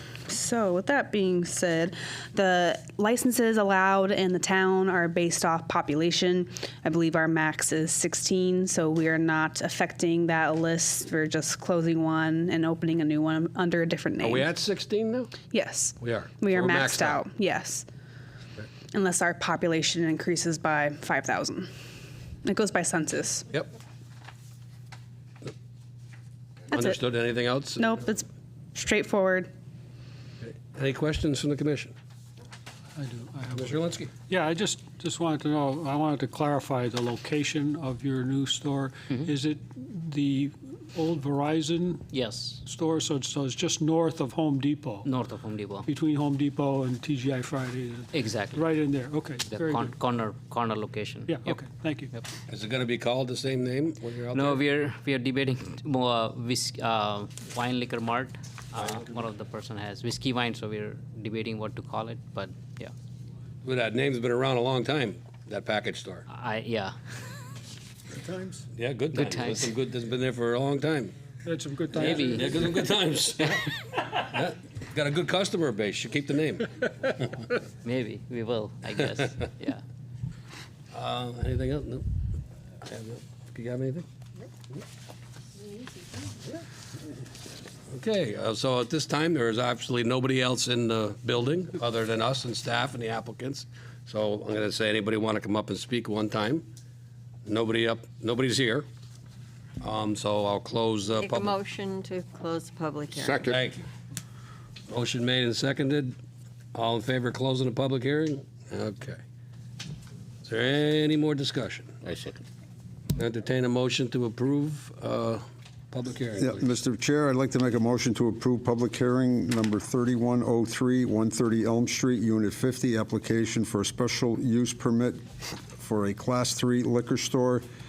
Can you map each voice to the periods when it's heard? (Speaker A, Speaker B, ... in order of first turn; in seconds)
Speaker A: 0.3-14.5, 15.5-17.9, 18.9-21.7, 22.4-23.5, 27.8-29.5
Speaker B: 14.2-15.3, 16.0-17.2, 26.7-28.1, 30.4-31.9, 33.5-34.1, 52.5-54.6, 58.8-59.0, 63.6-66.3, 68.7-71.1, 72.0-77.3, 80.9-82.1, 82.9-84.1, 87.9-96.7, 97.5-98.9, 99.8-101.6, 103.3-103.8, 104.9-106.2, 106.7-109.2, 110.5-112.3, 113.2-116.7
Speaker C: 33.0-42.0, 42.7-45.1, 45.9-49.9, 51.3-52.1, 68.1-68.6, 71.5-72.8
Speaker D: 42.1-42.6, 45.0-45.9, 48.1-48.7, 49.5-51.6, 54.3-62.9, 66.3-67.0, 69.1-69.7, 71.9-72.5, 77.8-79.8
Speaker E: 101.2-103.6
Speaker F: 116.4-125.2, 125.8-127.7